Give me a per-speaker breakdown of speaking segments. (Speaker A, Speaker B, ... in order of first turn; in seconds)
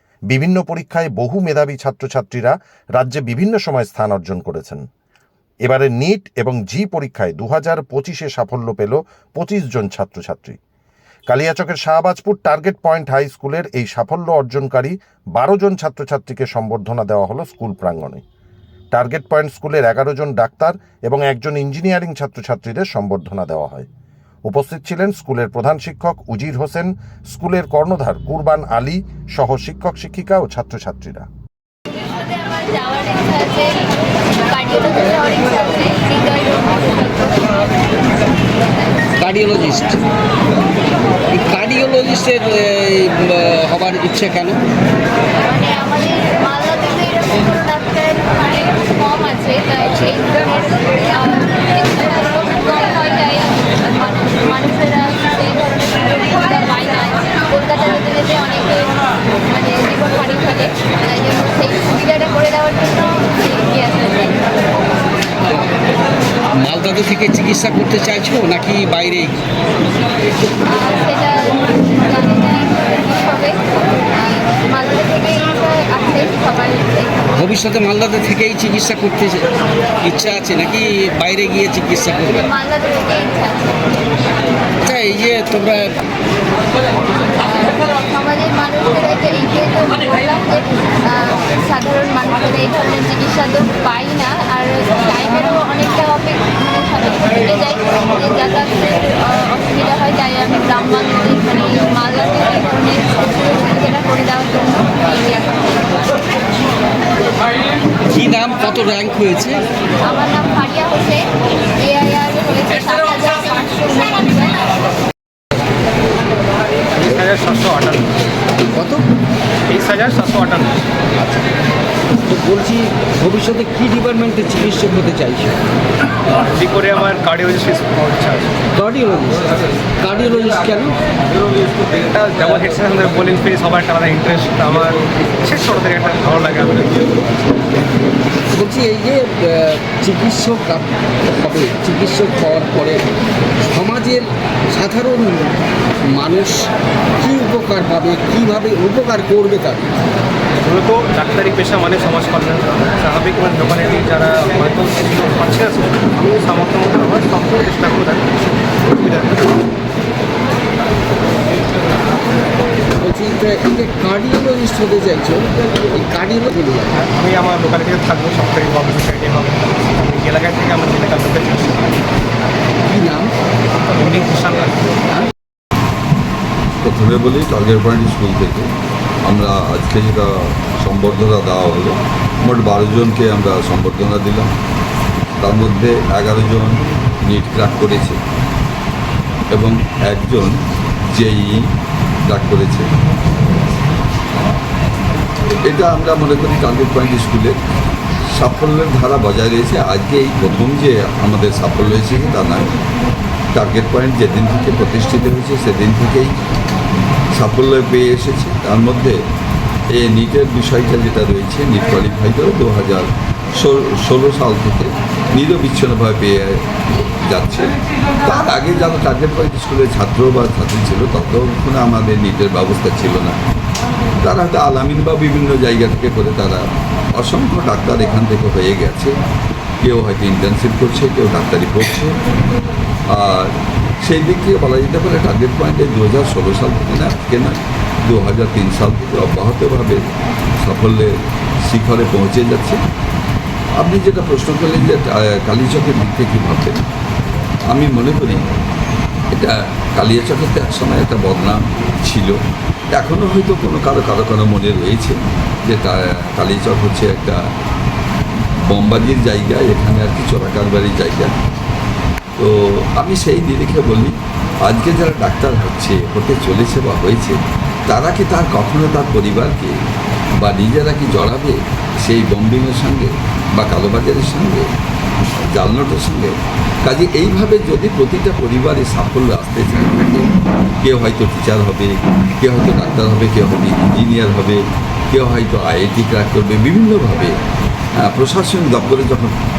Speaker A: 0.3-4.8, 5.7-10.6, 11.3-18.2, 18.9-23.9, 24.5-31.3
Speaker B: 32.1-37.9, 45.4-64.4, 70.6-77.3, 82.3-83.9, 87.0-106.2, 110.0-111.3, 111.8-114.9
Speaker C: 39.2-40.0, 41.3-44.6, 66.5-69.4, 77.3-82.4, 84.8-86.0, 108.1-109.6, 118.6-119.1, 122.1-125.6, 128.6-131.0, 138.5-143.1, 143.6-149.9, 163.0-167.1, 172.8-173.3
Speaker D: 116.9-118.2, 119.7-120.8, 126.3-128.6, 131.7-137.2, 150.5-159.7, 167.1-171.9, 173.8-174.9
Speaker E: 176.8-178.7, 179.2-184.5, 185.4-188.2, 189.5-190.6, 191.1-191.7, 192.3-192.9, 195.6-197.6, 198.3-202.7, 203.5-206.3, 207.4-209.2, 209.9-223.4, 224.2-226.6, 227.2-229.2, 229.8-232.2, 233.1-233.5, 234.0-240.1, 240.6-241.2, 241.7-242.8, 243.8-246.8, 247.7-248.4, 249.3-252.4, 252.9-257.4, 258.7-261.3, 262.4-269.8, 270.4-274.7, 275.5-280.3, 280.8-287.3, 288.0-289.4